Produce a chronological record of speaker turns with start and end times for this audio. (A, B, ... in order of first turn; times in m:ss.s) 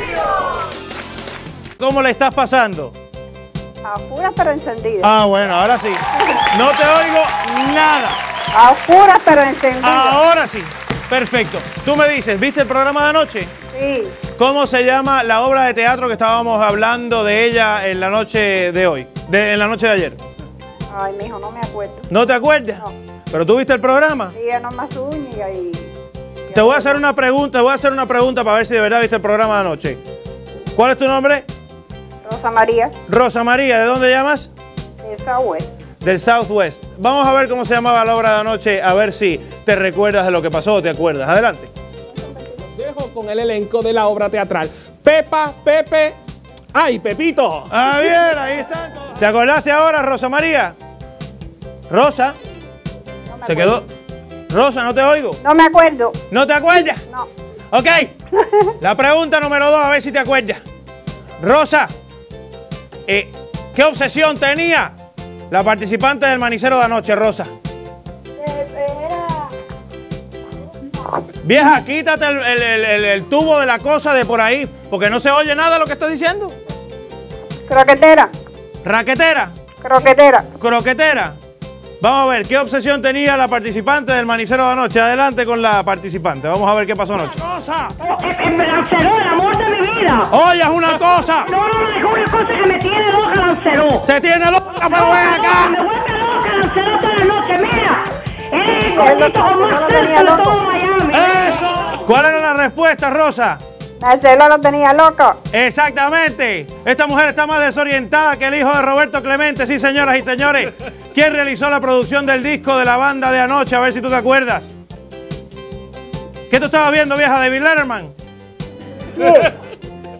0:01.8-0:02.9 A
0:03.8-0:05.1 B
0:05.0-0:08.2 A
0:06.2-0:06.4 B
0:08.5-0:10.2 B
0:09.8-0:13.5 A
0:13.7-0:14.2 B
0:14.4-0:20.2 A
0:20.9-0:22.1 B
0:22.1-0:24.3 A
0:24.3-0:25.9 B
0:26.5-0:27.0 B
0:26.5-0:30.0 A
0:30.7-0:31.4 A
0:32.2-0:32.9 B
0:33.1-0:34.5 A
0:35.0-0:35.6 B
0:36.0-0:41.7 A
0:42.1-0:42.6 B
0:42.8-0:46.2 C
0:46.7-0:47.7 C
0:47.7-0:50.7 A
0:51.9-0:52.4 A
0:53.3-0:53.8 B
0:53.4-0:53.8 A
0:54.5-0:55.4 A
0:55.4-0:56.2 B
0:56.3-0:57.0 A
0:57.7-0:58.1 A
0:58.4-0:58.7 B
0:58.8-1:00.6 A
1:01.4-1:01.9 A
1:03.1-1:04.9 A
1:05.5-1:07.5 A
1:08.4-1:09.5 B
1:11.4-1:16.5 A
1:17.7-1:18.3 B
1:18.8-1:19.5 A
1:19.8-1:20.4 B
1:20.6-1:21.4 A
1:22.0-1:27.9 A
1:28.0-1:30.3 D
1:30.3-1:31.5 A
1:31.4-1:34.0 D
1:34.0-1:35.8 A
1:34.8-1:41.7 D
1:38.9-1:40.6 B
1:41.2-1:43.6 A
1:44.0-1:45.4 B
1:45.5-1:54.7 A
1:56.5-1:58.1 A
1:59.1-1:59.5 B